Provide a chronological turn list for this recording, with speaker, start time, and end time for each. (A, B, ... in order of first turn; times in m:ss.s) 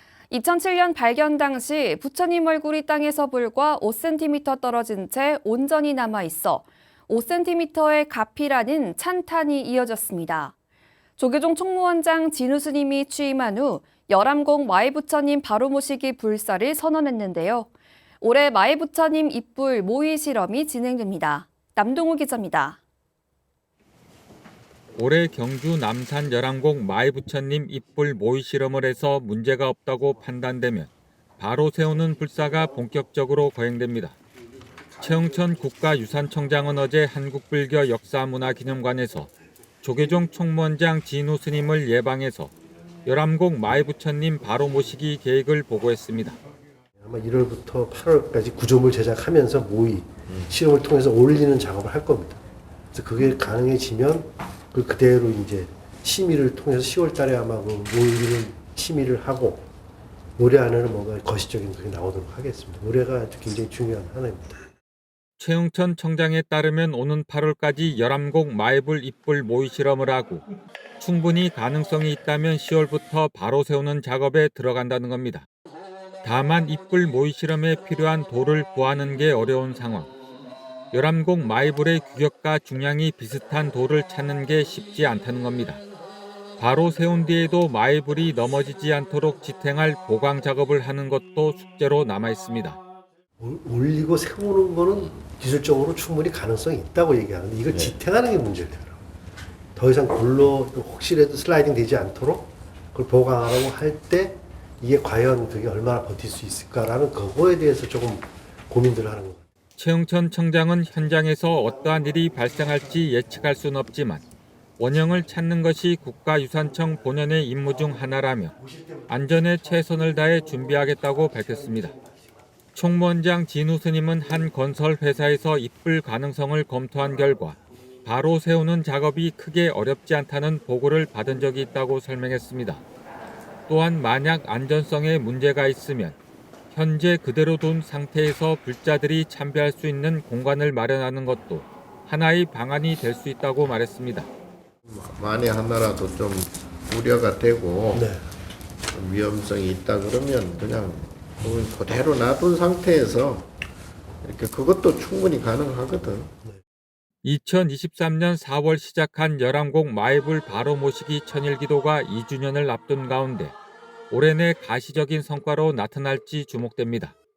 0:00.3-0:10.5 A
0:11.2-0:17.7 A
0:18.2-0:22.8 A
0:25.0-0:34.2 B
0:35.0-0:42.5 B
0:43.1-0:46.4 B
0:47.0-0:52.4 C
0:52.9-0:59.7 C
1:00.4-1:04.6 C
1:05.4-1:10.4 B
1:11.0-1:15.5 B
1:16.2-1:20.1 B
1:20.9-1:25.8 B
1:26.6-1:32.8 B
1:33.4-1:39.0 C
1:39.8-1:49.4 C
1:49.8-1:54.2 B
1:54.8-1:58.6 B
1:59.1-2:02.0 B
2:02.8-2:12.8 B
2:13.7-2:16.2 B
2:16.7-2:24.3 B
2:24.9-2:28.1 D
2:27.9-2:28.2 C
2:28.9-2:33.5 D
2:34.2-2:36.3 D
2:37.2-2:43.6 B
2:44.1-2:47.2 B